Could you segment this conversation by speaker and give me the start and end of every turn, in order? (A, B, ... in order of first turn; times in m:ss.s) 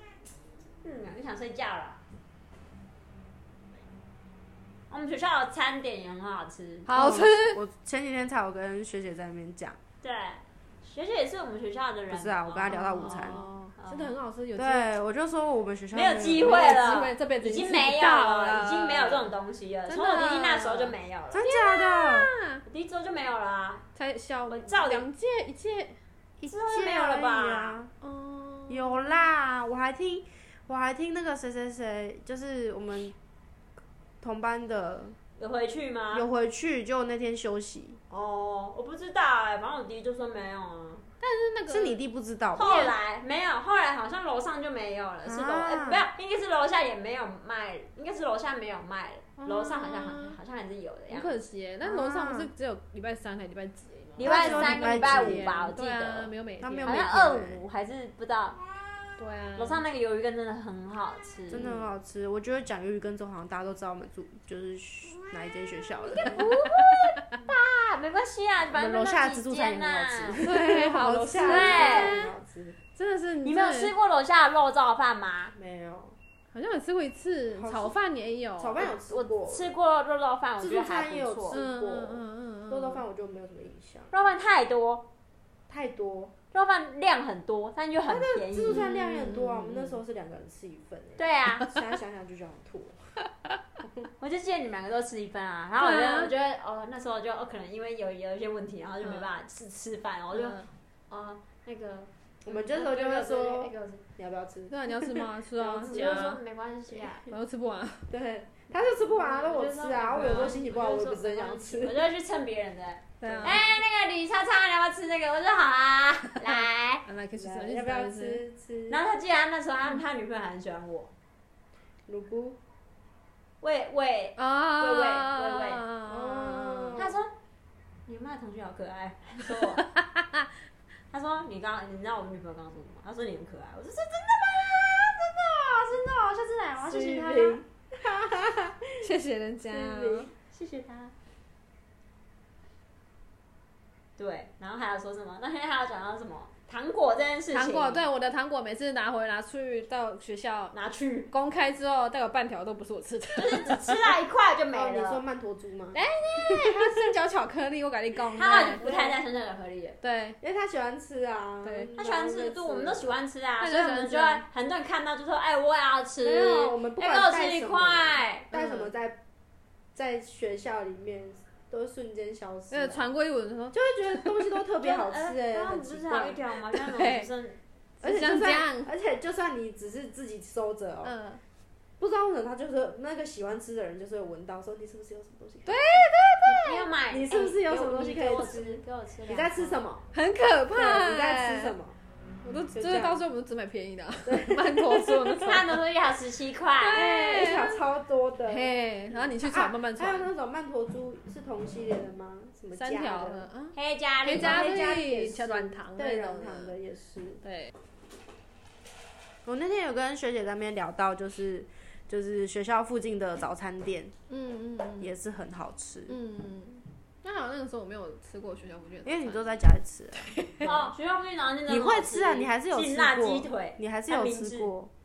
0:00.8-0:02.0 A
0:04.9-0:06.9 A
0:06.9-0:07.6 B
0:06.9-0:09.8 C
0:10.0-0:14.1 A
0:12.1-0:13.4 C
0:12.7-0:14.9 B
0:14.6-0:16.8 C
0:15.9-0:21.5 A
0:16.4-0:19.2 B
0:19.9-0:22.6 B
0:21.3-0:22.3 C
0:22.7-0:23.8 A
0:24.0-0:26.0 B
0:24.5-0:25.1 A
0:26.4-0:27.9 C
0:26.5-0:27.8 A
0:28.0-0:29.1 B
0:28.7-0:33.2 C
0:34.2-0:35.2 C
0:35.4-0:36.3 A
0:36.1-0:38.0 C
0:38.1-0:41.0 A
0:41.2-0:42.0 B
0:41.7-0:42.9 C
0:42.6-0:51.4 A
0:45.2-0:46.1 C
0:49.4-0:50.4 B
0:51.1-0:57.2 B
0:51.8-0:52.5 C
0:54.2-0:56.3 A
0:54.2-0:55.5 C
0:56.6-0:57.6 C
0:56.8-0:58.6 A
0:59.2-0:59.8 B
0:59.6-1:01.7 A
1:01.5-1:06.5 C
1:06.1-1:10.4 A
1:06.4-1:06.9 B
1:08.7-1:12.8 C
1:10.4-1:12.3 B
1:11.4-1:12.2 A
1:13.0-1:13.9 B
1:13.4-1:15.6 A
1:15.6-1:16.2 C
1:16.5-1:18.8 B
1:17.6-1:18.0 C
1:18.6-1:19.7 C
1:18.8-1:21.6 A
1:20.6-1:24.1 C
1:21.5-1:23.0 B
1:24.1-1:25.1 A
1:25.7-1:26.4 C
1:26.5-1:28.8 A
1:28.1-1:33.2 C
1:28.7-1:30.0 B
1:31.2-1:31.7 A
1:33.8-1:34.1 C
1:34.2-1:44.0 A
1:35.8-1:36.3 B
1:39.0-1:39.3 B
1:40.3-1:40.7 B
1:42.4-1:46.4 C
1:44.7-1:46.4 B
1:45.9-1:47.3 A
1:47.3-1:48.1 B
1:48.1-1:52.1 C
1:49.1-1:57.0 A
1:53.2-1:53.7 B
1:53.2-1:53.8 C
1:56.5-1:58.4 B
1:57.4-1:59.0 C
1:58.9-2:01.1 A
2:02.1-2:02.6 C
2:03.6-2:05.9 A
2:04.4-2:07.0 B
2:06.1-2:07.2 C
2:07.0-2:07.3 A
2:08.1-2:09.9 A
2:09.5-2:10.5 B
2:11.1-2:17.6 A
2:16.8-2:19.0 C
2:19.0-2:20.3 B
2:19.7-2:21.1 A
2:24.2-2:28.1 A
2:27.5-2:30.8 B
2:30.7-2:31.3 A
2:31.3-2:33.9 B
2:33.4-2:35.2 A
2:34.7-2:37.1 C
2:35.9-2:38.9 B
2:38.4-2:40.0 A
2:38.8-2:39.2 C
2:40.0-2:40.4 B
2:40.4-2:43.1 C
2:41.6-2:41.9 B
2:42.0-2:48.5 A
2:43.6-2:44.4 B
2:46.2-2:49.2 C
2:48.5-2:48.9 B
2:50.0-2:53.0 C
2:52.7-2:54.5 B
2:53.7-2:56.4 C
2:54.8-2:57.6 A
2:56.8-2:57.3 B
2:58.0-2:58.9 B
2:58.0-3:01.1 C
3:01.0-3:01.4 B
3:02.0-3:06.1 C
3:05.7-3:06.9 B
3:06.5-3:09.8 A
3:07.1-3:10.0 C
3:10.1-3:11.8 B
3:10.7-3:12.0 C
3:12.4-3:15.8 B
3:12.7-3:13.2 C
3:14.3-3:15.5 C
3:15.4-3:17.1 A
3:16.8-3:17.8 B
3:16.9-3:23.4 C
3:18.5-3:20.3 B
3:22.8-3:26.8 B
3:23.7-3:24.8 A
3:24.3-3:27.4 C
3:27.4-3:27.7 B
3:29.4-3:34.1 C
3:34.3-3:35.1 B
3:35.0-3:36.2 C
3:36.1-3:39.5 B
3:39.0-3:40.9 C
3:40.3-3:40.7 B
3:40.6-3:44.7 A
3:41.7-3:44.9 C